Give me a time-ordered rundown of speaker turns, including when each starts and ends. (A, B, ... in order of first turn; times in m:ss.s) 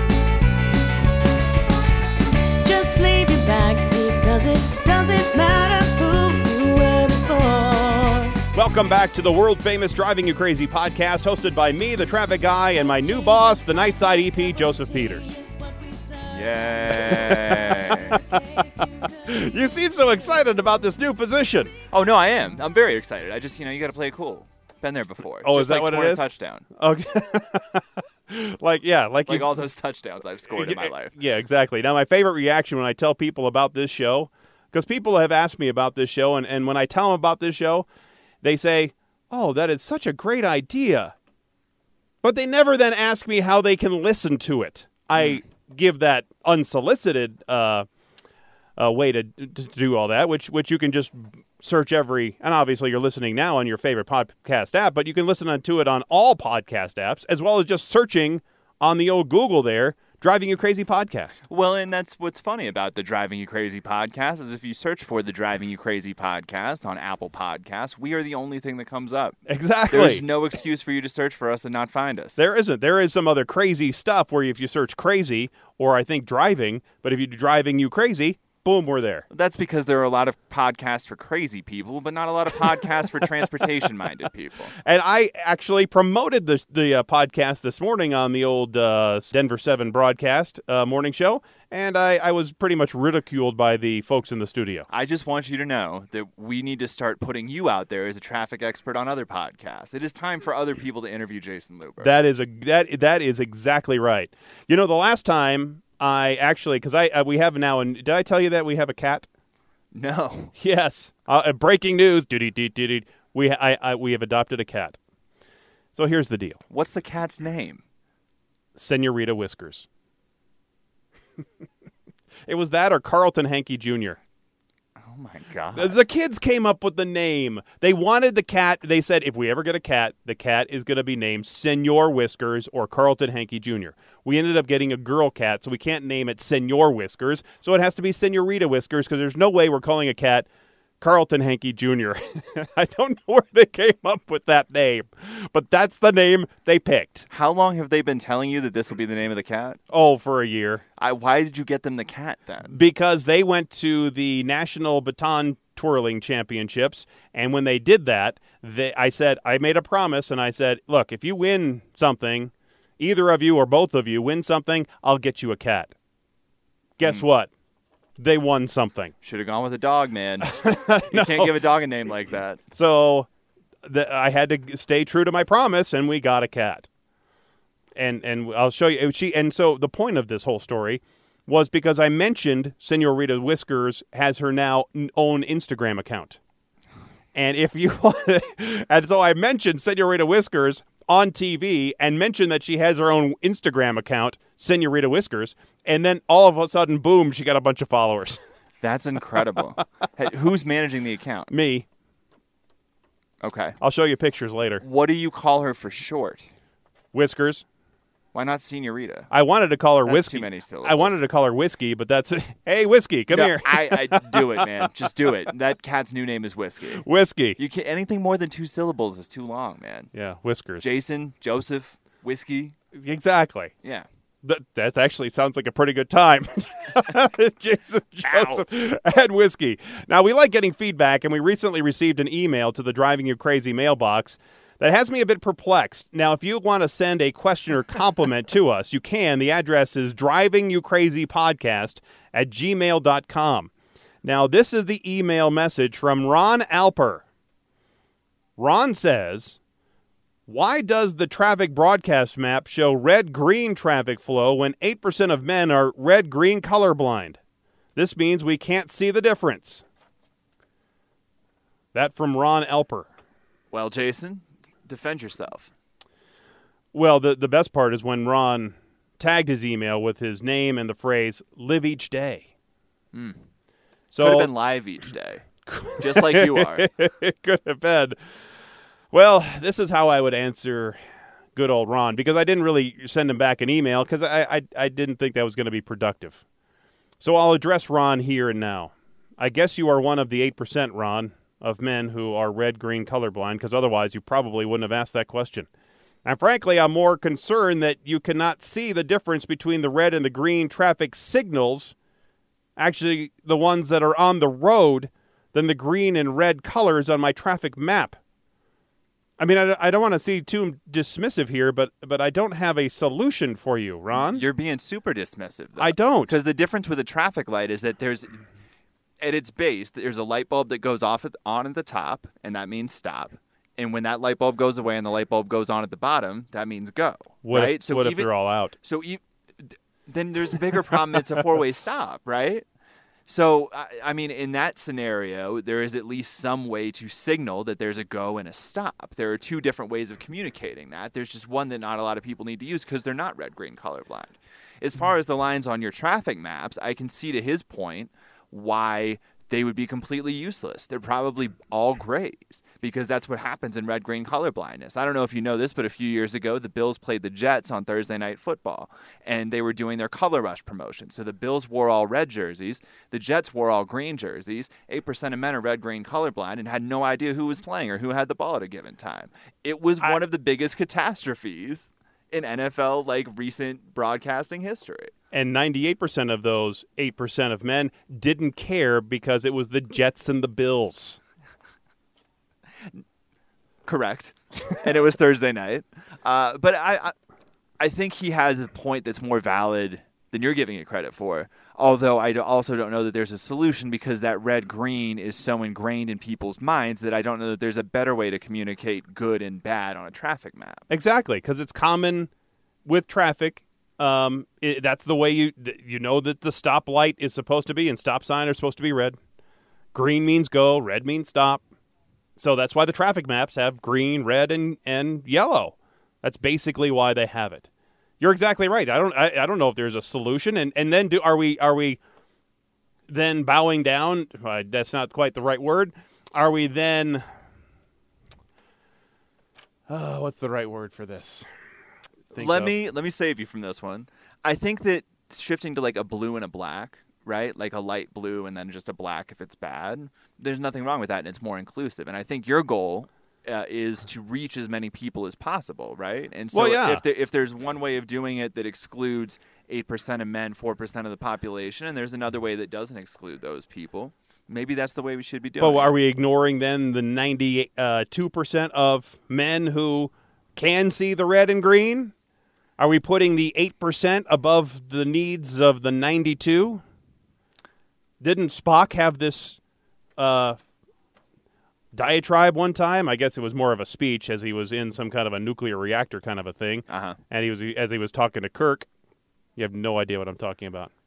0:02.6-0:08.4 A
0:08.5-0:15.2 B
0:15.0-0:16.9 A
0:16.3-0:18.2 C
0:16.9-0:18.3 B
0:17.6-0:19.3 A
0:19.2-0:21.8 B
0:21.9-0:26.6 C
0:25.4-0:29.6 B
0:29.3-0:31.1 C
0:30.5-0:37.8 B
0:38.4-0:41.1 B
0:42.2-0:47.8 B
0:45.1-0:45.4 C
0:48.8-1:01.3 B
1:01.5-1:09.4 C
1:09.5-1:10.2 B
1:09.9-1:12.4 C
1:12.4-1:19.2 B
1:19.3-1:24.7 C
1:24.8-1:34.9 B
1:34.9-1:42.1 C
1:42.0-1:49.3 B
1:49.9-1:50.5 C
1:50.6-1:55.0 B
1:56.0-1:56.6 B
1:56.7-1:57.8 C
1:58.8-1:59.8 B
2:02.5-2:04.2 B
2:05.0-2:06.0 C
2:05.7-2:20.5 B
2:21.0-2:27.3 B
2:27.3-2:29.8 C
2:29.9-2:30.8 B
2:31.0-2:32.7 C
2:32.7-2:45.9 B
2:47.0-2:47.5 B
2:48.2-2:49.1 B
2:49.2-2:52.6 C
2:50.4-2:51.6 B
2:52.7-2:53.3 B
2:53.8-2:56.9 B
2:58.0-3:06.4 B
3:07.3-3:18.4 B
3:18.8-3:21.5 C
3:21.5-3:21.8 B
3:23.4-3:23.8 C
3:23.8-3:24.8 B
3:24.8-3:26.5 C
3:27.1-3:27.6 B
3:28.3-3:29.3 C
3:29.3-3:34.7 B
3:30.0-3:31.2 C
3:33.3-3:37.0 C
3:37.0-3:37.6 B
3:37.6-3:40.1 C
3:40.1-3:40.9 B
3:40.8-3:42.8 C
3:42.9-3:43.7 B
3:44.4-4:03.7 B
3:48.2-3:48.6 C
4:04.2-4:07.2 B
4:08.6-4:09.6 B
4:10.5-4:17.4 B
4:18.0-4:19.8 B
4:21.9-4:23.1 B
4:23.7-4:25.7 C
4:26.9-4:32.4 B
4:33.1-4:33.4 C
4:34.1-4:34.5 B
4:34.2-4:36.9 C
4:35.7-4:38.2 B
4:39.1-4:41.0 B
4:41.6-4:46.4 B
4:47.2-4:55.7 B
4:56.2-5:01.9 B
5:02.8-5:08.2 B
5:09.4-5:14.4 B
5:14.1-5:18.4 C
5:15.8-5:16.4 B
5:19.2-5:28.3 C
5:27.4-5:28.7 B
5:28.8-5:32.6 C
5:33.3-6:15.1 C
6:15.3-6:21.2 B
6:23.8-6:27.1 C
6:27.8-6:40.8 C
6:40.9-6:42.3 B
6:42.8-6:49.2 B
6:49.9-6:51.6 B
6:52.4-6:57.7 B
6:58.2-7:02.0 B
7:03.1-7:07.2 B
7:09.9-7:11.5 B
7:12.3-7:12.7 B
7:12.3-7:35.9 C
7:26.5-7:27.0 B
7:35.6-7:42.1 B
7:42.8-7:46.8 B
7:48.2-7:49.6 B
7:50.2-7:50.6 B
7:51.9-7:58.8 B
7:56.9-7:57.2 C
7:59.6-8:00.9 B